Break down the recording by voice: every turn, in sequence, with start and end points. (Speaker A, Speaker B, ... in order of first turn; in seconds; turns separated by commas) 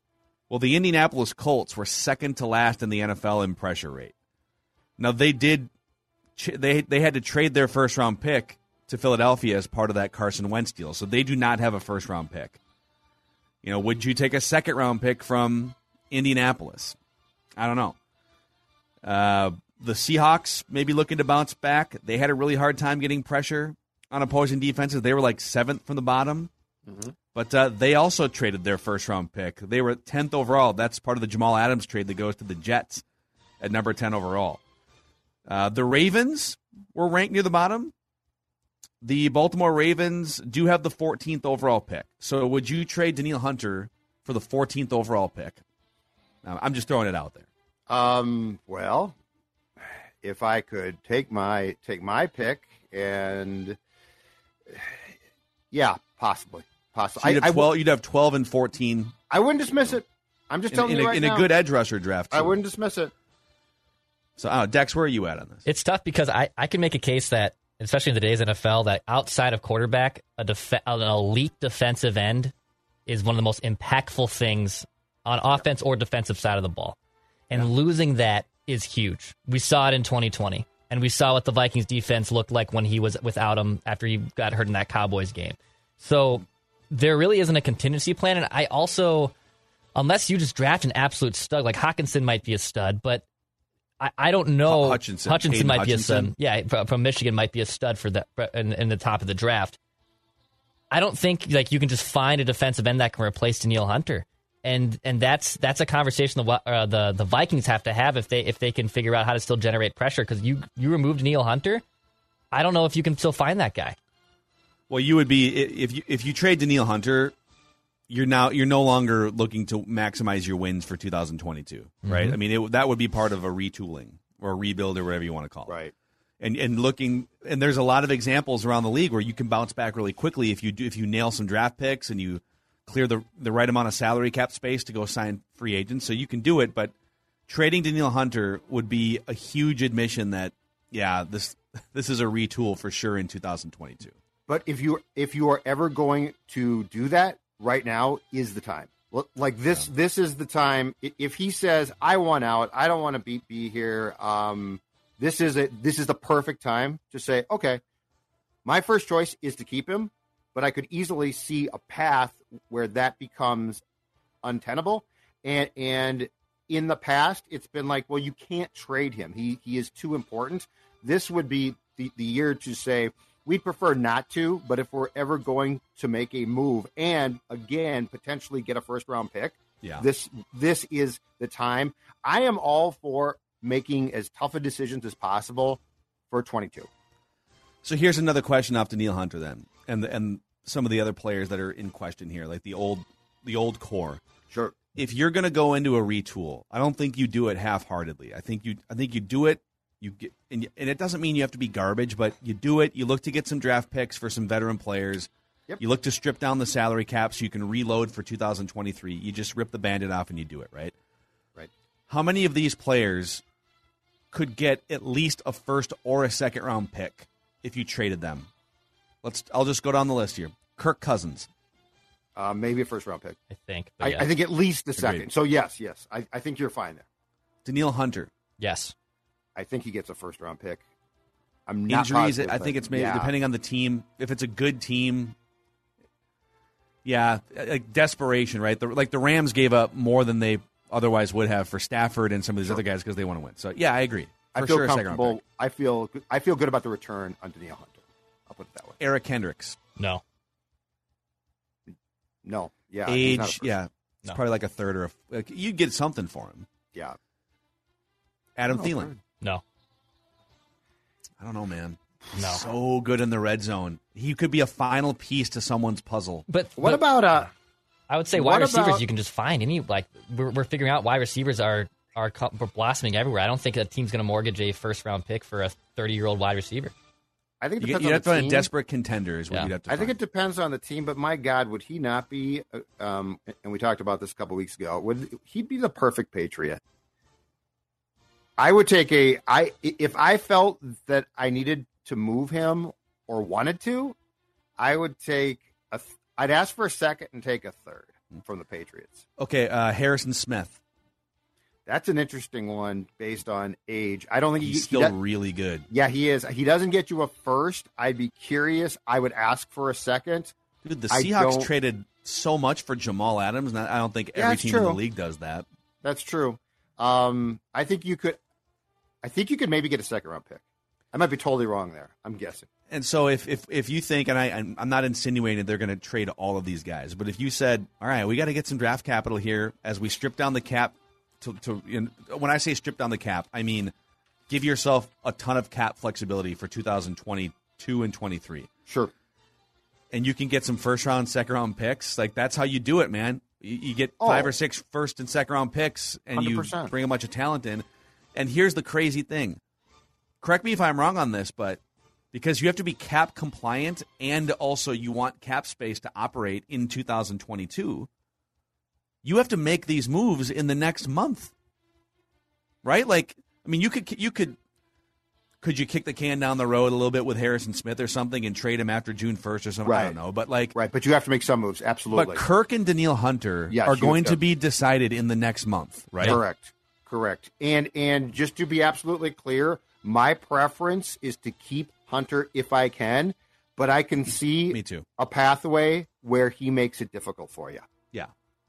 Speaker A: 0.5-4.1, Speaker A: 5.0-5.7, Speaker A: 6.4-12.6, Speaker A: 13.6-16.9, Speaker A: 17.6-17.9, Speaker A: 19.0-26.5, Speaker B: 26.9-27.1, Speaker A: 27.3-33.0, Speaker A: 33.6-34.6, Speaker A: 35.5-37.9, Speaker A: 39.0-45.6, Speaker A: 46.4-47.5, Speaker B: 47.9-49.1, Speaker B: 50.2-53.8, Speaker B: 55.7-57.7, Speaker A: 57.2-59.1, Speaker B: 59.3-61.5, Speaker A: 60.7-62.6, Speaker B: 62.3-63.1, Speaker A: 64.4-65.6, Speaker C: 65.7-72.5, Speaker C: 73.1-77.0, Speaker C: 77.5-89.3, Speaker C: 89.9-93.2, Speaker C: 94.0-99.8, Speaker A: 94.7-96.3, Speaker C: 100.9-111.8, Speaker C: 112.5-114.0, Speaker A: 114.9-117.3, Speaker A: 118.1-125.8, Speaker C: 122.0-122.3, Speaker A: 126.4-136.9, Speaker A: 137.5-144.2, Speaker B: 144.5-157.8, Speaker B: 158.6-163.8, Speaker B: 164.4-185.8, Speaker B: 186.3-186.9, Speaker A: 187.8-194.2, Speaker B: 194.5-194.8, Speaker A: 194.9-210.9, Speaker A: 212.1-213.4, Speaker A: 214.3-218.5, Speaker A: 219.2-221.5, Speaker B: 222.3-223.4, Speaker C: 223.5-224.3, Speaker B: 224.0-227.0, Speaker A: 225.0-225.3, Speaker A: 227.6-228.3, Speaker C: 228.6-228.9, Speaker B: 229.6-230.8, Speaker B: 231.7-233.3, Speaker A: 231.9-235.3, Speaker A: 237.0-245.4, Speaker B: 244.6-249.0, Speaker A: 249.0-249.8, Speaker C: 250.0-250.2, Speaker B: 252.4-253.8, Speaker A: 253.1-256.7, Speaker A: 258.6-259.1, Speaker B: 258.7-259.1, Speaker A: 261.4-262.0, Speaker C: 262.3-262.6, Speaker A: 262.5-266.4, Speaker C: 266.5-267.0, Speaker B: 266.8-267.5, Speaker C: 268.1-276.9, Speaker B: 268.4-269.0, Speaker B: 277.6-278.7, Speaker A: 277.8-280.1, Speaker B: 279.9-286.8, Speaker B: 288.6-294.1, Speaker B: 294.8-299.2, Speaker A: 299.4-300.8, Speaker B: 301.9-305.1, Speaker A: 304.6-305.9, Speaker B: 305.9-310.5, Speaker A: 310.8-315.6, Speaker B: 311.1-311.7, Speaker B: 314.4-315.0, Speaker B: 316.0-318.4, Speaker B: 319.2-322.7, Speaker A: 322.9-333.9, Speaker A: 334.5-338.7, Speaker A: 340.1-349.6, Speaker B: 344.2-344.5, Speaker B: 346.3-346.9, Speaker A: 350.4-351.8, Speaker A: 352.3-358.1, Speaker A: 359.2-361.5, Speaker A: 362.8-364.6, Speaker A: 365.6-370.7, Speaker B: 369.8-370.1, Speaker B: 370.7-372.4, Speaker A: 372.1-376.4, Speaker B: 373.7-374.4, Speaker B: 376.2-387.9, Speaker A: 384.7-385.1